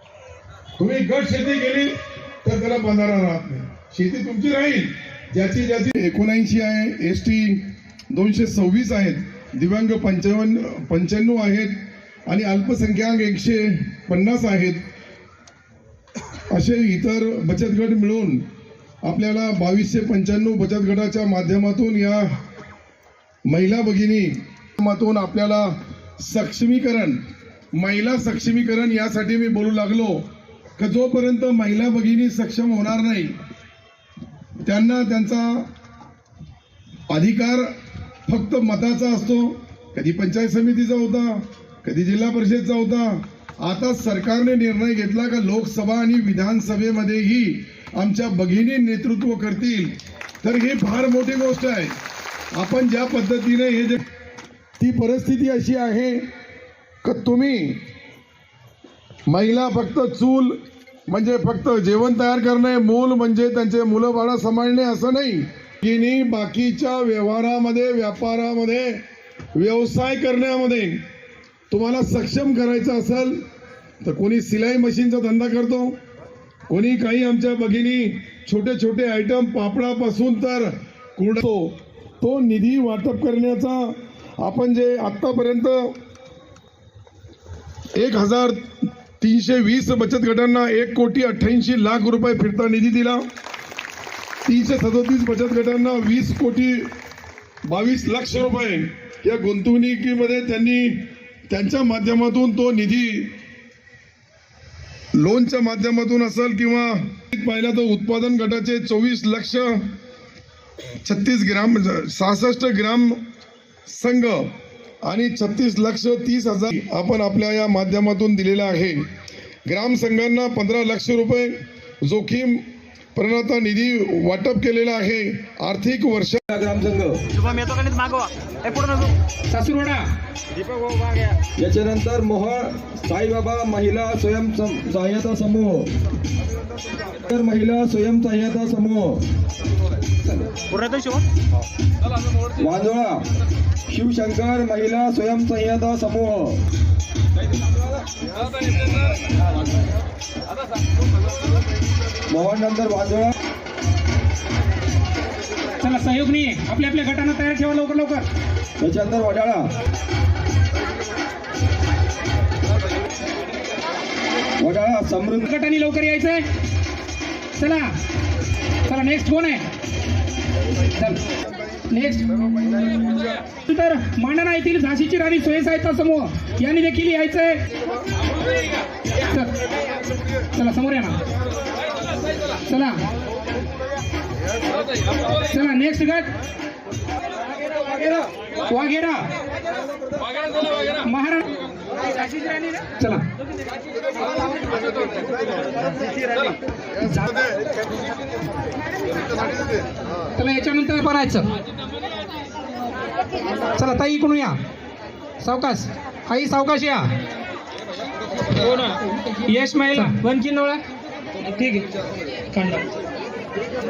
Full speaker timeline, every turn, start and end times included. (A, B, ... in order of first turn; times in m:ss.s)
0:00.8-0:14.8 A
0:16.5-0:18.4 A
0:19.0-0:22.3 A
0:23.5-0:27.2 A
0:27.8-0:30.2 A
0:30.8-0:33.4 A
0:34.6-0:35.7 A
0:37.1-0:37.7 A
0:38.3-0:52.0 A
0:52.6-0:54.1 A
0:54.8-0:56.2 A
0:57.0-0:57.8 A
0:59.3-1:09.0 A
1:09.6-1:11.0 A
1:11.7-1:13.4 A
1:14.0-1:16.0 A
1:16.7-1:26.0 A
1:28.0-1:33.2 A
1:34.4-1:36.9 A
1:37.7-1:43.4 A
1:45.2-1:50.0 A
1:51.0-1:53.2 A
1:53.9-1:54.5 A
1:55.0-1:59.1 A
1:59.7-2:06.4 A
2:06.5-2:07.5 B
2:09.5-2:10.1 C
2:10.9-2:15.9 B
2:17.2-2:19.2 B
2:20.7-2:21.2 C
2:22.6-2:23.2 B
2:23.9-2:26.6 B
2:32.3-2:33.3 B
2:35.8-2:38.2 C
2:38.8-2:39.7 B
2:44.6-2:45.5 B
2:45.4-2:46.4 C
2:47.6-2:47.9 C
2:48.8-2:49.7 C
2:50.9-2:51.2 C
2:51.9-2:52.9 C
2:53.6-2:57.6 C
2:59.2-2:59.6 C
3:00.5-3:01.2 C
3:02.6-3:03.0 C
3:05.4-3:06.3 C
3:08.6-3:09.3 C
3:11.0-3:11.5 C
3:12.8-3:13.2 C
3:17.0-3:17.4 C
3:20.4-3:21.5 C
3:23.7-3:24.6 C
3:25.4-3:27.1 C
3:28.6-3:30.8 C
3:32.5-3:32.9 C